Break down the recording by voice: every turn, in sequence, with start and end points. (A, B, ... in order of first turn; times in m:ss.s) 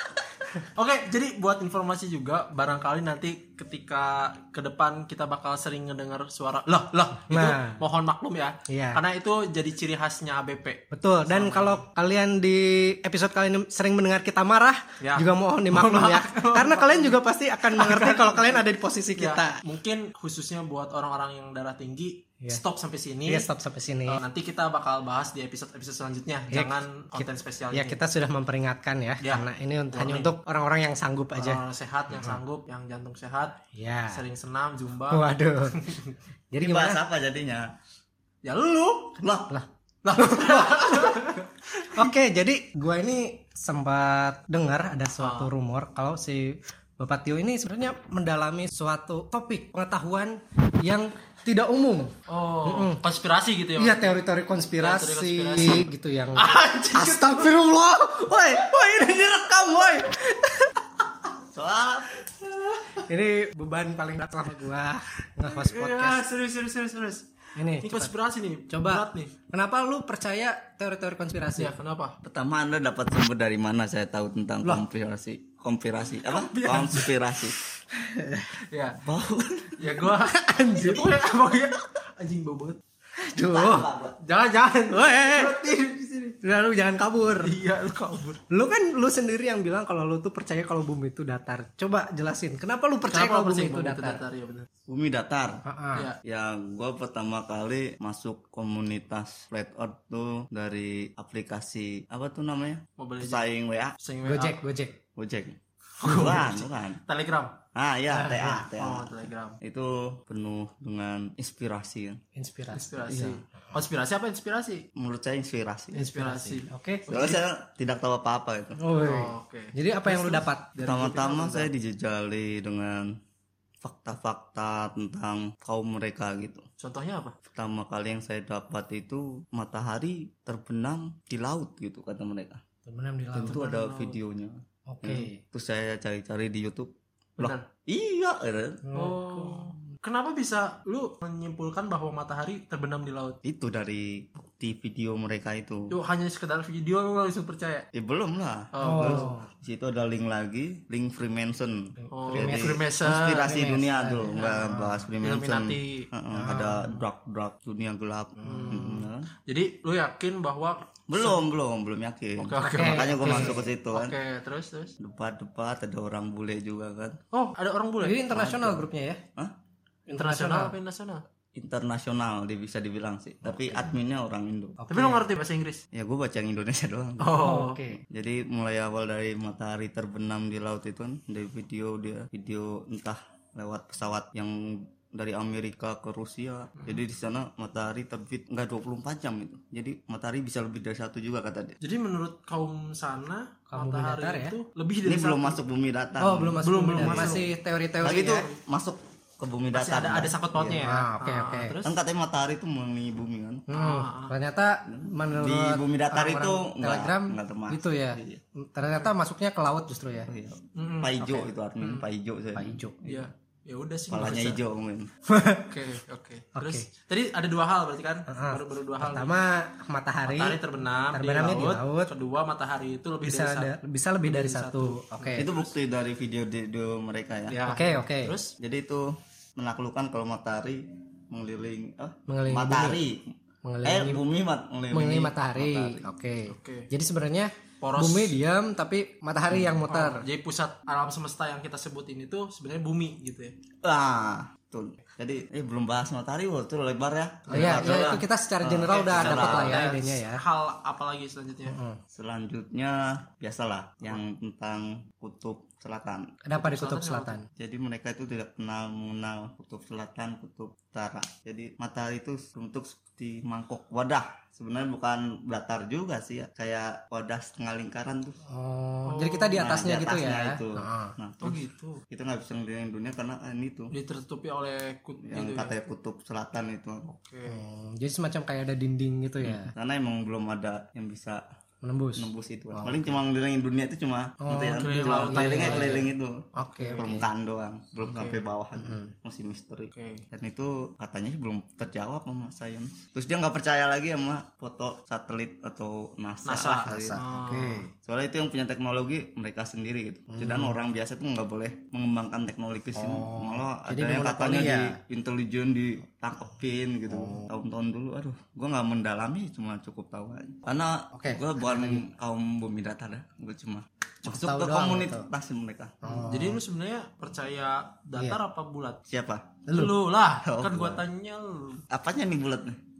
0:00.6-0:11.8 A
0:07.3-0:07.8 B
0:08.7-0:09.0 B
0:10.9-0:19.6 B
0:15.0-0:18.6 A
0:19.2-0:23.5 A
0:23.3-0:24.2 B
0:24.1-0:28.0 A
0:26.5-0:31.6 B
0:29.2-0:30.3 A
0:31.4-0:33.6 A
0:33.8-0:34.2 B
0:34.1-0:36.2 A
0:35.1-0:35.8 B
0:36.5-0:37.0 B
0:36.6-0:37.7 C
0:38.4-0:39.2 A
0:39.2-0:39.5 C
0:39.5-0:41.3 B
0:40.0-0:41.5 A
0:41.9-0:53.0 B
0:45.2-0:45.5 A
0:52.3-0:54.1 A
0:53.8-1:00.8 B
0:54.8-0:57.4 A
1:01.5-1:02.1 C
1:02.9-1:06.3 B
1:05.4-1:09.3 A
1:07.6-1:08.1 B
1:08.7-1:11.7 B
1:11.6-1:12.2 A
1:12.2-1:17.6 C
1:16.2-1:17.1 A
1:17.9-1:18.5 B
1:18.7-1:19.0 A
1:19.0-1:19.8 C
1:19.8-1:22.8 A
1:20.1-1:21.2 B
1:23.2-1:23.9 B
1:23.5-1:24.2 C
1:24.2-1:26.4 A
1:24.9-1:25.6 B
1:26.4-1:27.5 B
1:27.4-1:28.4 A
1:28.5-1:34.2 B
1:33.1-1:34.7 A
1:34.9-1:35.6 C
1:35.6-1:36.1 B
1:36.2-1:44.0 C
1:43.0-1:43.4 A
1:44.0-1:44.6 A
1:44.2-1:45.0 B
1:45.2-1:47.0 C
1:46.0-1:47.6 A
1:47.8-1:52.2 C
1:48.1-1:48.7 B
1:48.8-1:49.6 A
1:52.4-1:53.4 B
1:52.7-1:54.9 A
1:55.0-1:58.8 C
1:55.9-1:57.4 A
1:56.7-1:57.0 B
1:58.8-2:00.7 B
1:59.0-2:01.7 A
2:00.8-2:03.2 C
2:03.8-2:06.7 C
2:06.8-2:07.4 A
2:07.5-2:12.6 C
2:12.9-2:13.6 B
2:13.3-2:18.8 C
2:13.4-2:14.2 A
2:14.9-2:15.4 B
2:17.4-2:17.6 A
2:18.8-2:19.8 B
2:19.0-2:23.4 A
2:23.4-2:25.9 C
2:25.9-2:27.9 A
2:27.9-2:39.3 C
2:28.7-2:29.4 A
2:28.8-2:29.5 B
2:32.0-2:32.8 B
2:32.1-2:33.5 A
2:33.4-2:34.9 B
2:34.3-2:36.1 A
2:36.3-2:36.9 B
2:38.4-2:39.1 B
2:38.4-2:38.9 A
2:39.5-2:41.4 A
2:41.1-2:44.2 C
2:42.4-2:45.0 A
2:42.7-2:43.6 B
2:45.0-2:47.2 C
2:47.3-2:48.3 A
2:48.0-2:49.2 B
2:48.3-2:49.5 C
2:50.1-2:50.7 B
2:50.2-2:51.2 A
2:51.6-2:54.8 C
2:53.5-2:53.9 B
2:54.8-2:55.2 B
2:54.9-2:55.8 A
2:55.9-2:57.4 C
2:57.2-2:57.8 A
2:57.4-2:58.0 B
2:58.0-3:11.8 C
3:11.8-3:15.6 A
3:13.7-3:14.6 B
3:15.0-3:17.5 C
3:16.2-3:18.5 B
3:16.6-3:17.5 A
3:18.0-3:20.9 C
3:19.7-3:22.0 A
3:20.8-3:21.8 B
3:21.8-3:23.6 C
3:23.7-3:30.3 B
3:23.7-3:24.3 A
3:24.9-3:28.4 C
3:30.3-3:33.3 C
3:30.8-3:32.1 A
3:32.6-3:33.0 B
3:33.0-3:34.6 A
3:34.1-3:35.1 C
3:35.3-3:35.7 B
3:35.7-3:39.3 A
3:36.6-3:36.9 B
3:38.3-3:40.6 B
3:40.3-3:45.7 A
3:41.1-3:42.1 B
3:43.2-3:45.5 B
3:45.4-3:47.7 C
3:47.5-3:48.6 A
3:47.7-3:48.4 B
3:48.6-3:56.1 C
3:52.3-3:53.0 B
3:53.6-3:54.2 B
3:54.9-4:00.2 B
3:56.5-3:56.9 A
3:57.8-3:58.4 A
3:59.5-3:59.8 C
3:59.9-4:03.6 A
4:03.8-4:09.8 C
4:07.5-4:10.4 B
4:07.5-4:08.2 A
4:08.9-4:11.8 A
4:11.7-4:12.0 B
4:12.1-4:16.3 C
4:16.5-4:17.5 B
4:16.6-4:17.4 A
4:17.6-4:28.4 C
4:28.5-4:31.2 B
4:29.1-4:29.8 A
4:29.6-4:33.9 C
4:31.4-4:32.0 A
4:33.9-4:35.7 A
4:35.2-4:37.1 C
4:37.1-4:37.6 A
4:37.4-4:39.7 B
4:39.4-4:41.4 C
4:41.8-4:43.2 B
4:42.2-4:46.4 C
4:44.4-4:47.2 B
4:44.6-4:46.1 A
4:46.8-4:47.1 A
4:47.0-4:57.2 C
4:48.0-4:48.4 A
4:48.8-4:49.1 B
4:49.9-4:50.2 A
4:56.4-4:57.9 A
4:56.8-4:57.9 B
4:58.0-5:16.0 C
5:00.3-5:00.8 B
5:03.0-5:05.0 B
5:07.1-5:07.5 B
5:11.1-5:12.0 B
5:14.2-5:15.3 B
5:16.0-5:16.6 B
5:16.2-5:19.0 A
5:19.1-5:19.6 C
5:19.7-5:19.9 B
5:19.7-5:21.8 A
5:20.4-5:21.0 C
5:21.9-5:22.8 C